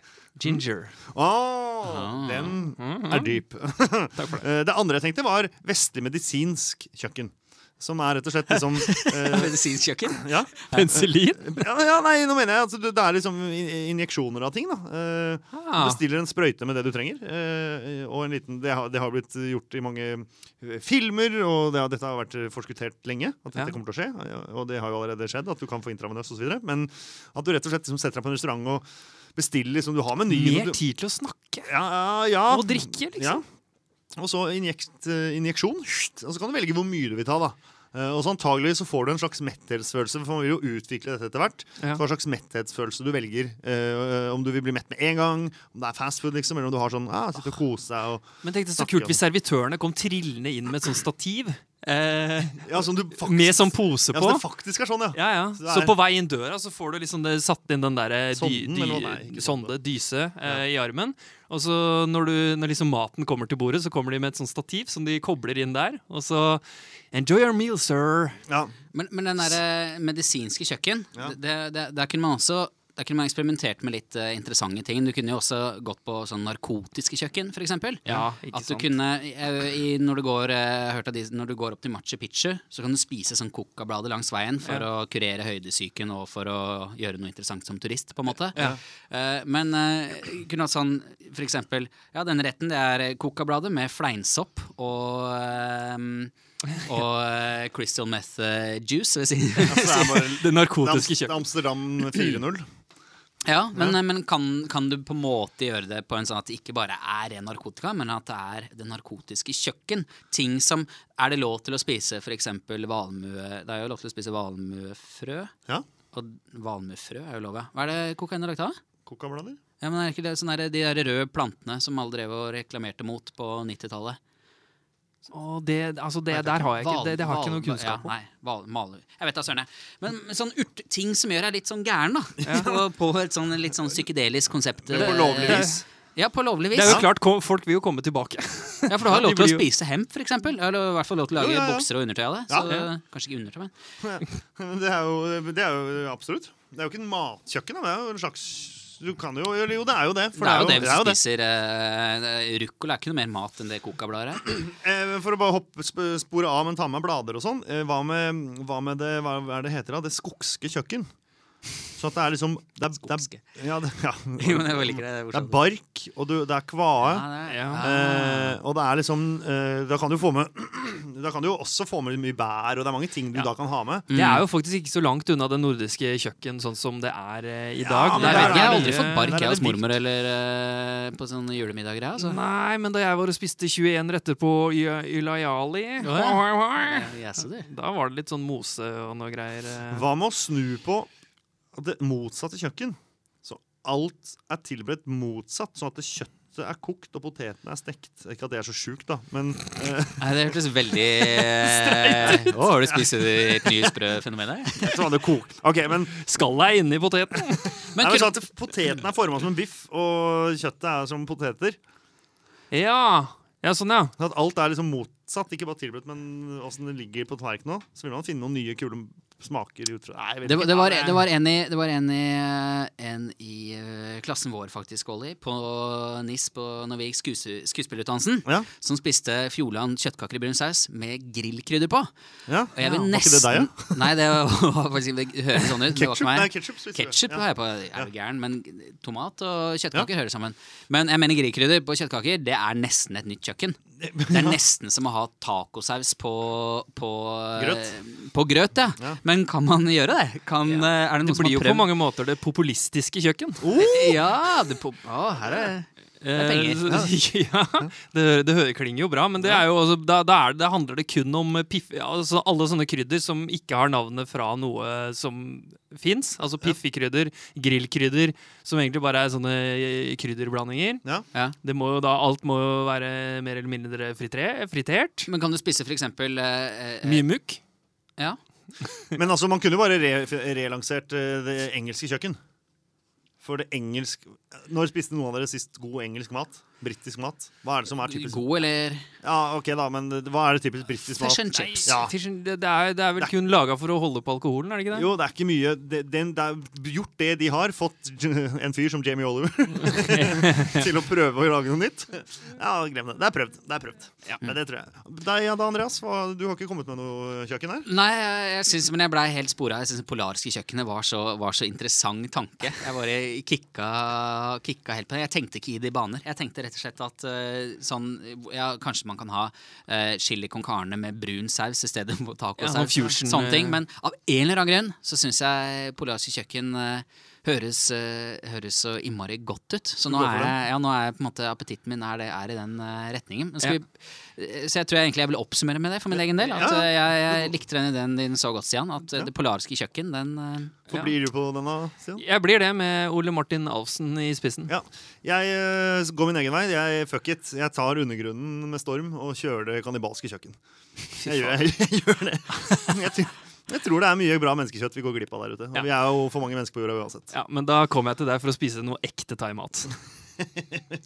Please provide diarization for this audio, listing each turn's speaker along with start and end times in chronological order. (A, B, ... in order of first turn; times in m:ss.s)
0:00.4-0:01.0 A
0:01.1-0:09.6 B
0:01.8-0:02.6 C
0:02.8-0:03.4 A
0:04.2-0:04.4 A
0:08.8-0:11.0 C
0:10.1-0:30.8 B
0:10.7-0:11.6 A
0:15.5-0:16.0 A
0:30.3-0:31.7 A
0:31.6-0:33.4 B
0:32.5-0:33.4 A
0:34.2-0:49.2 B
0:48.4-0:54.4 A
0:52.6-0:55.9 B
0:55.1-1:08.4 A
0:58.3-0:59.7 B
1:08.5-1:08.7 B
1:08.9-1:40.2 C
1:18.0-1:18.9 A
1:39.7-1:42.6 B
1:39.7-1:42.4 A
1:43.4-1:55.5 C
1:56.1-1:58.8 C
1:59.0-1:59.6 B
1:59.8-2:04.2 C
2:05.3-2:08.1 A
2:06.3-2:17.0 C
2:12.4-2:12.8 A
2:14.8-2:15.8 B
2:14.9-2:15.8 A
2:16.7-2:19.6 A
2:18.9-2:23.7 C
2:21.4-2:21.9 B
2:22.5-2:22.8 B
2:24.0-2:31.2 B
2:30.3-2:34.7 C
2:34.6-2:41.0 B
2:42.0-2:47.2 B
2:42.9-2:43.4 C
2:44.4-2:45.6 C
2:47.0-2:48.6 C
2:47.5-2:47.8 A
2:47.8-2:54.1 B
2:54.1-2:54.4 C
2:54.1-2:59.8 A
2:57.8-2:59.8 B
2:58.1-3:02.4 C
3:02.2-3:10.0 A
3:06.0-3:07.7 C
3:09.9-3:11.1 B
3:11.7-3:20.5 B
3:20.2-3:25.1 C
3:21.4-3:23.8 B
3:24.8-3:26.1 B
3:26.1-3:27.9 A
3:27.9-3:31.8 B
3:27.9-3:28.4 C
3:32.7-3:34.1 A
3:34.2-3:41.2 B
3:40.4-3:52.1 C
3:52.5-3:54.0 B
3:52.7-4:11.9 C
3:55.6-3:58.1 B
4:04.0-4:04.6 B
4:07.6-4:07.9 B
4:10.6-4:13.7 A
4:13.6-4:14.2 B
4:13.7-4:17.0 C
4:16.2-4:31.0 A
4:31.6-4:35.3 A
4:35.2-4:37.2 C
4:37.0-4:37.6 A
4:39.1-4:42.4 B
4:43.4-4:48.4 B
4:48.0-4:49.1 C
4:49.2-4:52.1 B
4:51.1-4:52.0 C
4:51.5-4:55.1 A
4:54.9-5:07.9 B
4:59.9-5:00.9 A
5:07.8-5:40.8 C
5:22.6-5:23.8 A
5:30.1-5:30.6 B
5:36.1-5:37.5 B
5:40.9-5:42.2 B
5:42.2-5:44.7 A
5:44.7-5:50.6 B
5:51.1-5:57.3 B
5:51.2-5:51.6 A
5:57.3-5:59.9 A
6:00.4-6:00.8 B